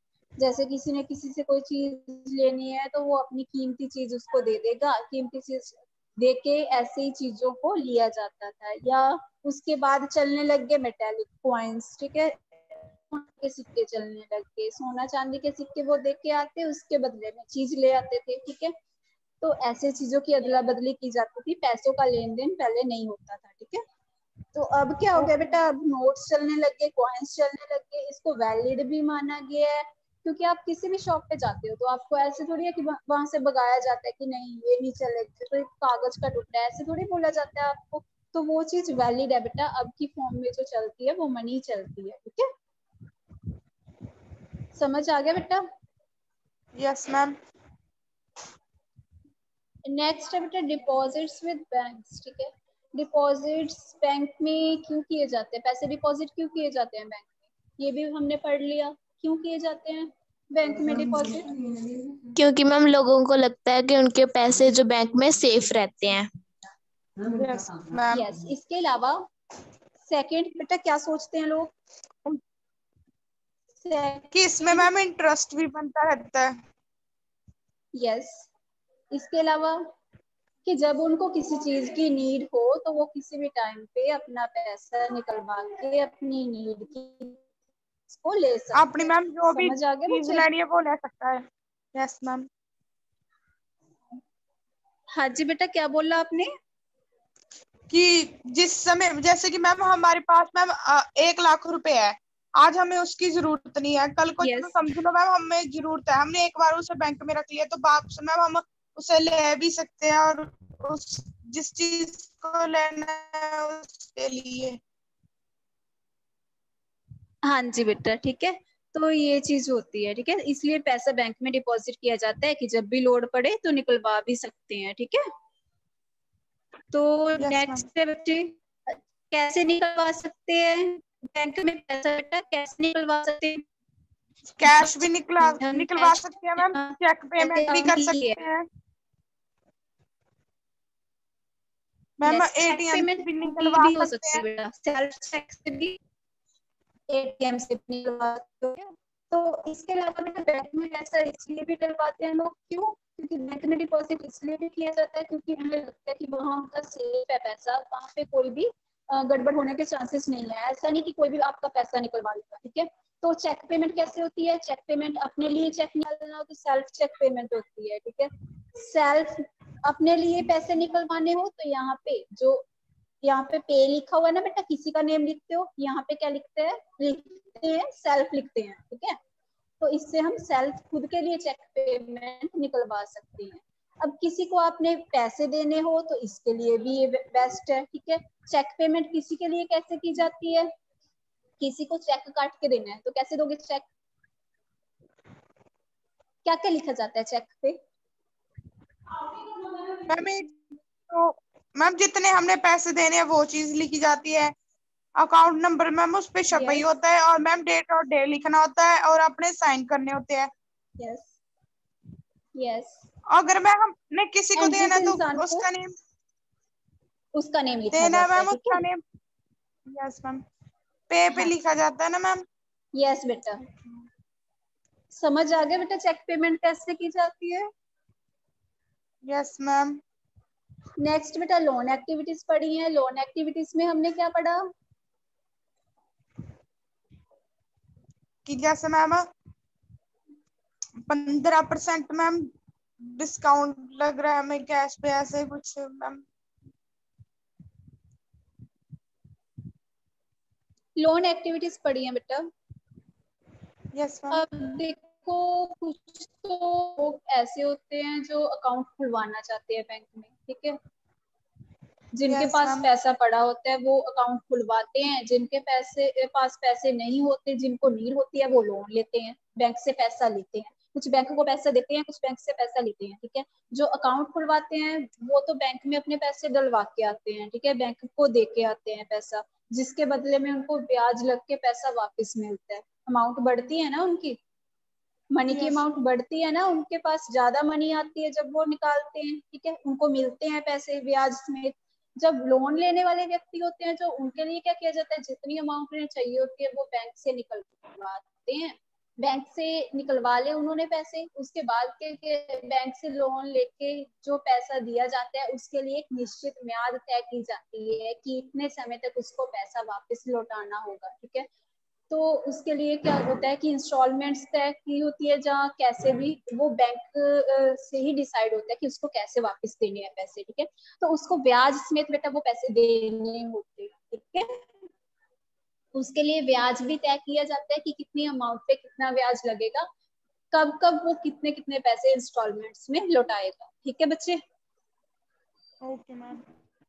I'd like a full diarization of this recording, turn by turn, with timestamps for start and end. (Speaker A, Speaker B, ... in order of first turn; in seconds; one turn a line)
Speaker A: 0.4-12.3
Speaker A: 13.1-18.7
Speaker A: 19.4-23.8
Speaker A: 24.5-42.5
Speaker A: 44.7-45.6
Speaker B: 46.8-47.4
Speaker A: 49.9-61.5
Speaker C: 62.3-66.3
Speaker B: 67.3-68.2
Speaker A: 68.1-69.2
Speaker A: 70.1-71.7
Speaker A: 73.8-74.9
Speaker B: 74.3-76.6
Speaker A: 77.9-78.5
Speaker A: 79.1-79.8
Speaker A: 80.6-87.4
Speaker A: 88.1-90.4
Speaker B: 88.7-91.4
Speaker B: 91.9-92.5
Speaker A: 95.1-96.5
Speaker B: 97.9-114.8
Speaker A: 104.4-104.7
Speaker A: 117.5-125.2
Speaker A: 126.9-133.6
Speaker B: 127.4-127.8
Speaker B: 134.5-138.7
Speaker A: 134.6-138.4
Speaker B: 142.2-144.4
Speaker A: 142.3-146.0
Speaker A: 147.1-172.6
Speaker A: 173.2-179.2
Speaker A: 179.8-190.7
Speaker A: 191.6-193.8
Speaker A: 196.4-197.8
Speaker A: 199.8-200.1
Speaker B: 200.1-204.5
Speaker B: 205.2-210.5
Speaker A: 206.5-206.8
Speaker A: 211.0-211.3
Speaker A: 212.6-212.9
Speaker B: 213.3-215.9
Speaker A: 214.6-215.6
Speaker A: 217.3-218.8
Speaker B: 217.9-219.0
Speaker B: 219.9-220.4
Speaker B: 221.1-222.4
Speaker A: 222.9-223.6
Speaker A: 225.1-227.7
Speaker B: 229.3-230.0
Speaker A: 231.0-234.7
Speaker B: 238.4-239.3
Speaker B: 241.1-242.5
Speaker B: 243.2-246.2
Speaker A: 251.0-252.5
Speaker B: 253.9-254.4
Speaker A: 254.3-260.8
Speaker A: 262.1-284.4
Speaker B: 262.3-262.9
Speaker A: 285.3-311.5
Speaker B: 285.5-285.8
Speaker A: 312.1-324.6
Speaker A: 325.9-329.9
Speaker A: 330.5-334.4
Speaker B: 335.8-336.4